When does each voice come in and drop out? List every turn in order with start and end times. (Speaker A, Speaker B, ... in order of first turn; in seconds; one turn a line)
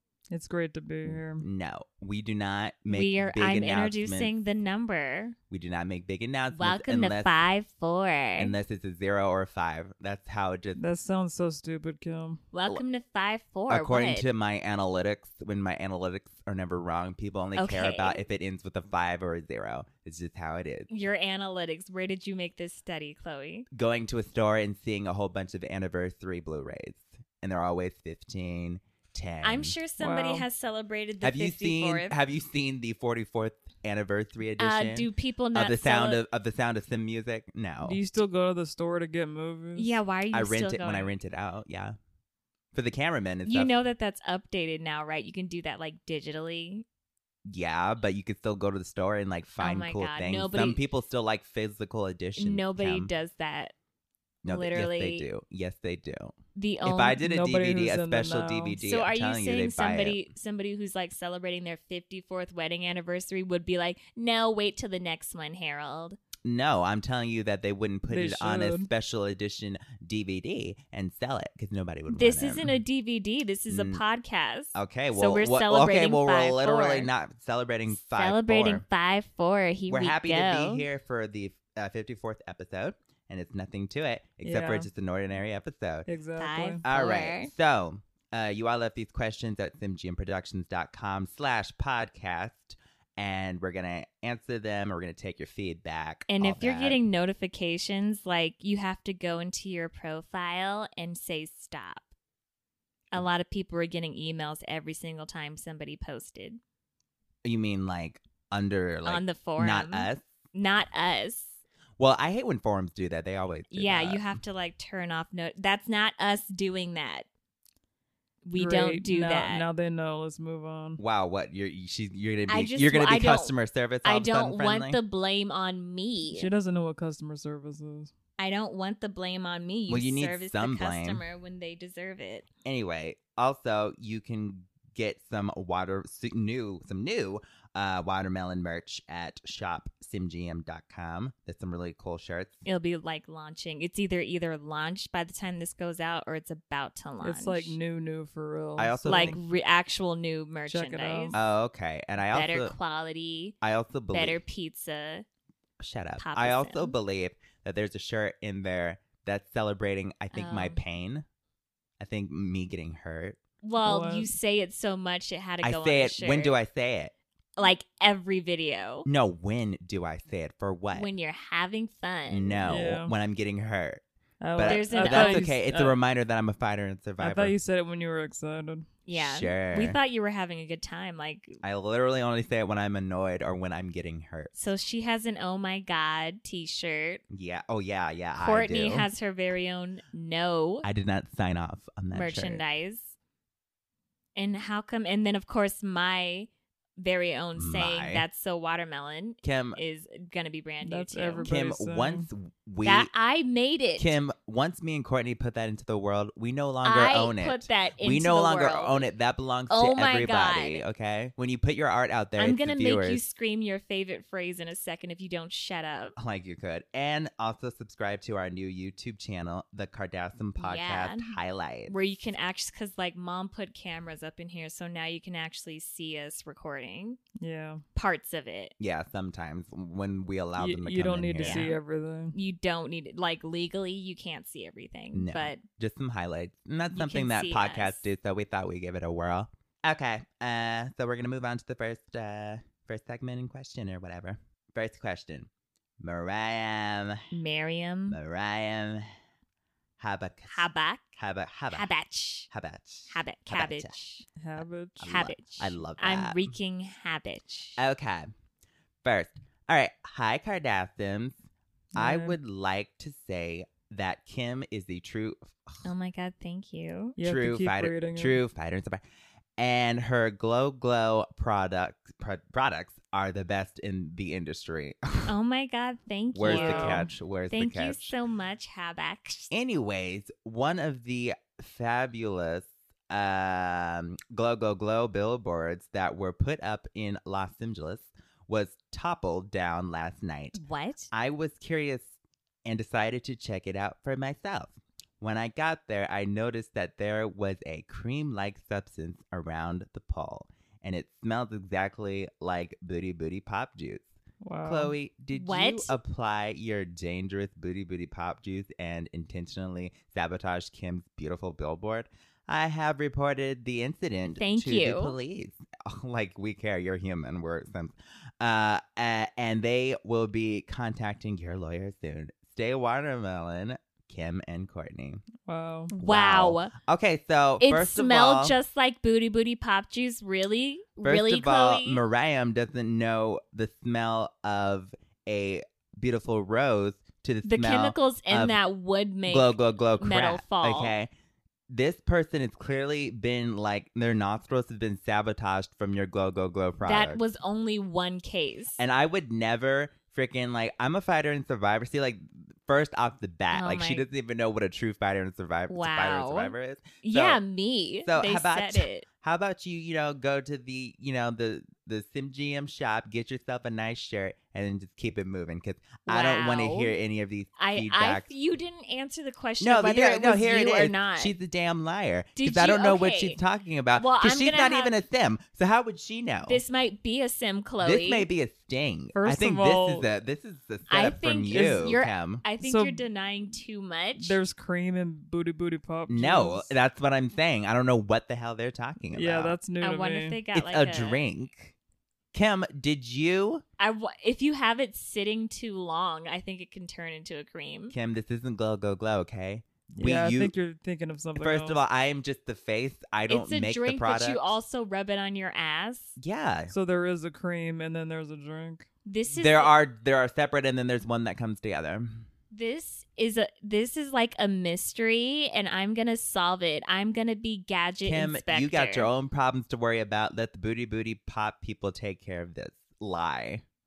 Speaker A: 0.3-1.4
Speaker B: 1.4-4.3
Speaker C: 2.9-5.3
Speaker B: 5.5-7.3
Speaker C: 6.5-8.5
Speaker B: 8.4-10.8
Speaker A: 10.8-12.4
Speaker C: 12.5-14.3
Speaker B: 13.7-20.9
Speaker C: 17.6-18.2
Speaker C: 20.9-23.7
Speaker B: 23.7-29.8
Speaker C: 29.4-32.1
Speaker A: 30.0-30.4
Speaker B: 31.2-38.0
Speaker C: 34.6-36.2
Speaker A: 37.8-39.9
Speaker C: 39.8-41.1
Speaker B: 40.3-42.0
Speaker B: 42.7-43.8
Speaker C: 43.4-46.8
Speaker B: 47.5-53.1
Speaker C: 49.6-50.8
Speaker C: 52.4-53.7
Speaker B: 54.4-60.2
Speaker C: 54.5-55.3
Speaker C: 56.5-57.2
Speaker A: 57.2-58.8
Speaker C: 58.8-66.2
Speaker B: 66.4-72.8
Speaker A: 68.1-68.9
Speaker C: 72.1-77.1
Speaker B: 73.7-74.0
Speaker B: 74.7-78.8
Speaker C: 77.9-80.9
Speaker B: 79.9-86.1
Speaker A: 84.4-84.9
Speaker A: 86.1-86.8
Speaker C: 86.4-87.5
Speaker B: 86.8-97.0
Speaker C: 96.3-102.1
Speaker C: 103.1-106.6
Speaker B: 107.4-110.2
Speaker C: 109.0-111.6
Speaker B: 112.0-114.3
Speaker C: 113.7-117.3
Speaker C: 118.5-119.6
Speaker A: 118.5-121.0
Speaker B: 121.0-125.0
Speaker C: 122.5-126.5
Speaker A: 126.3-128.1
Speaker C: 128.4-132.5
Speaker B: 129.9-131.2
Speaker B: 132.6-142.6
Speaker C: 142.6-147.8
Speaker A: 147.2-149.4
Speaker B: 148.8-149.4
Speaker C: 149.1-151.3
Speaker A: 150.7-151.4
Speaker B: 151.3-152.7
Speaker C: 152.3-153.6
Speaker B: 153.6-154.4
Speaker C: 154.1-155.2
Speaker B: 155.8-161.2
Speaker C: 156.2-157.0
Speaker C: 160.3-160.8
Speaker B: 162.0-163.4
Speaker C: 163.6-166.6
Speaker A: 163.8-164.3
Speaker B: 165.6-167.1
Speaker C: 167.6-169.1
Speaker B: 169.1-171.1
Speaker C: 170.9-172.8
Speaker B: 172.3-174.0
Speaker A: 172.7-173.1
Speaker A: 174.4-176.0
Speaker B: 174.5-177.5
Speaker C: 174.6-175.5
Speaker A: 177.2-178.8
Speaker C: 179.1-181.6
Speaker B: 179.1-180.0
Speaker B: 181.6-184.6
Speaker C: 184.5-187.2
Speaker B: 187.3-189.1
Speaker C: 188.4-190.9
Speaker B: 190.8-192.6
Speaker C: 192.1-193.1
Speaker C: 194.3-201.5
Speaker B: 197.6-198.2
Speaker B: 199.4-199.8
Speaker A: 200.8-202.3
Speaker B: 201.4-203.1
Speaker C: 202.8-204.2
Speaker B: 204.0-213.2
Speaker C: 206.8-209.1
Speaker C: 209.7-210.8
Speaker C: 212.4-216.1
Speaker B: 216.2-222.0
Speaker C: 220.6-221.3
Speaker C: 221.9-227.2
Speaker A: 227.4-227.8
Speaker C: 227.9-228.7
Speaker B: 228.8-231.7
Speaker A: 230.6-232.3
Speaker C: 231.4-231.7
Speaker C: 232.3-235.6
Speaker B: 235.1-245.5
Speaker C: 236.9-238.1
Speaker B: 246.0-247.2
Speaker C: 247.3-248.2
Speaker B: 248.1-249.1
Speaker B: 250.0-250.7
Speaker C: 250.5-251.1
Speaker B: 251.2-251.9
Speaker C: 251.7-252.5
Speaker B: 252.5-253.9
Speaker C: 253.1-254.2
Speaker A: 254.4-255.0
Speaker B: 254.6-256.5
Speaker C: 255.0-257.8
Speaker B: 257.8-258.3
Speaker B: 259.0-261.4
Speaker A: 261.9-262.4
Speaker B: 261.9-265.9
Speaker C: 265.8-267.2
Speaker A: 267.2-268.4
Speaker B: 267.2-269.0
Speaker B: 269.6-275.3
Speaker C: 275.3-279.5
Speaker B: 276.3-278.1
Speaker A: 276.4-277.1
Speaker B: 279.5-290.6
Speaker C: 290.5-291.1
Speaker B: 291.1-292.1
Speaker B: 292.6-304.1
Speaker A: 304.4-304.9
Speaker B: 304.6-325.2
Speaker C: 305.3-306.0
Speaker C: 314.3-315.1
Speaker A: 325.4-325.9
Speaker C: 325.9-326.7
Speaker B: 326.0-328.6
Speaker C: 327.6-332.0
Speaker B: 331.0-338.6
Speaker C: 337.4-340.9
Speaker B: 339.3-341.1
Speaker B: 341.7-347.2
Speaker C: 346.8-348.8
Speaker B: 348.8-357.4
Speaker C: 353.5-354.0
Speaker C: 355.7-359.1
Speaker B: 358.0-368.3
Speaker C: 366.1-366.9
Speaker C: 367.6-371.3
Speaker B: 369.6-376.6
Speaker C: 372.4-373.4
Speaker C: 373.9-374.9
Speaker C: 376.4-378.3
Speaker B: 377.8-382.4
Speaker A: 379.1-380.1
Speaker C: 380.9-384.4
Speaker A: 381.5-381.9
Speaker A: 382.6-383.0
Speaker A: 384.2-386.8
Speaker B: 386.1-389.6
Speaker A: 389.1-390.4
Speaker C: 389.8-391.2
Speaker B: 390.5-391.7
Speaker B: 392.3-393.6
Speaker C: 393.8-397.9
Speaker B: 397.9-400.5
Speaker A: 400.0-401.8
Speaker B: 401.4-404.6
Speaker C: 403.3-406.2
Speaker B: 406.2-406.7
Speaker A: 406.7-408.9
Speaker C: 409.1-409.7
Speaker B: 409.4-412.3
Speaker C: 412.5-419.1
Speaker B: 418.0-423.6